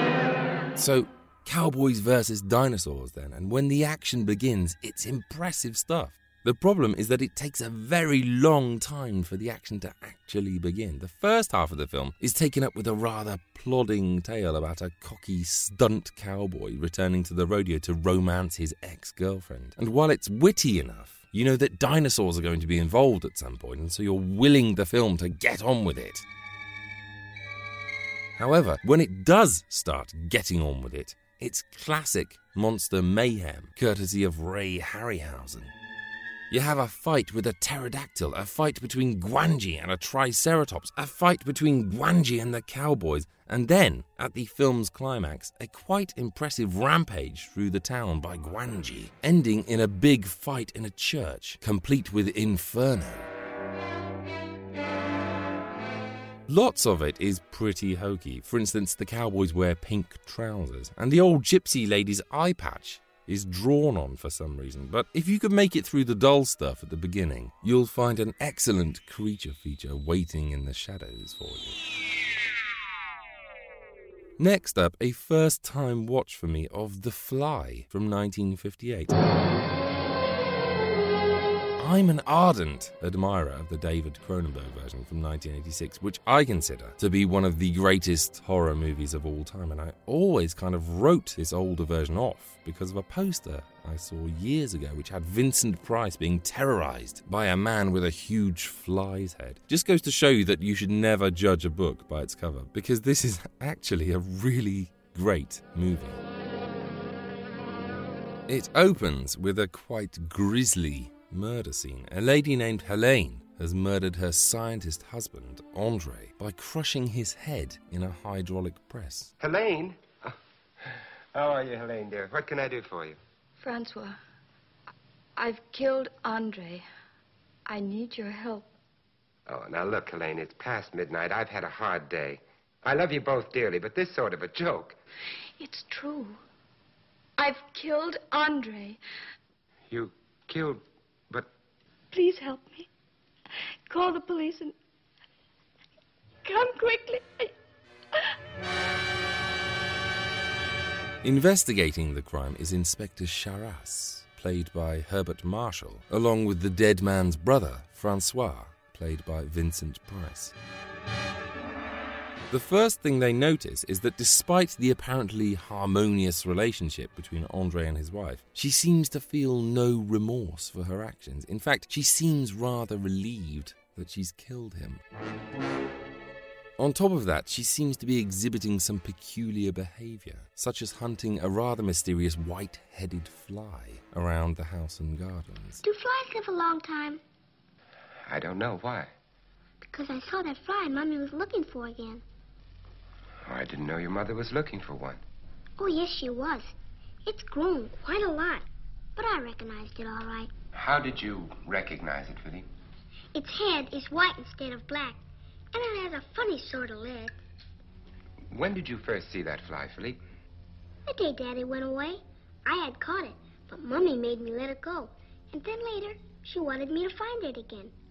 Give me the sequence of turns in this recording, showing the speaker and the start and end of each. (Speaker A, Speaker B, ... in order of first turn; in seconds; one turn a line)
Speaker A: 0.8-26.2
Speaker A: 28.4-35.7
Speaker A: 36.5-53.3
Speaker A: 56.5-71.8
Speaker A: 74.4-79.1
Speaker A: 81.8-106.2
Speaker A: 108.5-119.3
Speaker B: 119.4-120.3
Speaker B: 121.3-123.2
Speaker C: 123.6-124.2
Speaker C: 125.4-126.8
Speaker C: 127.7-128.7
Speaker B: 129.5-134.9
Speaker C: 135.6-136.4
Speaker C: 137.4-139.0
Speaker B: 139.9-141.5
Speaker C: 142.1-142.9
Speaker C: 143.9-144.7
Speaker C: 146.4-147.5
Speaker A: 151.2-160.5
Speaker A: 162.5-175.0
Speaker A: 176.8-185.8
Speaker D: 185.8-187.2
Speaker B: 188.3-189.1
Speaker D: 189.8-192.2
Speaker B: 193.4-195.2
Speaker D: 195.8-200.5
Speaker B: 200.7-202.7
Speaker D: 203.3-205.2
Speaker D: 205.7-207.3
Speaker B: 208.5-210.2
Speaker D: 211.1-217.9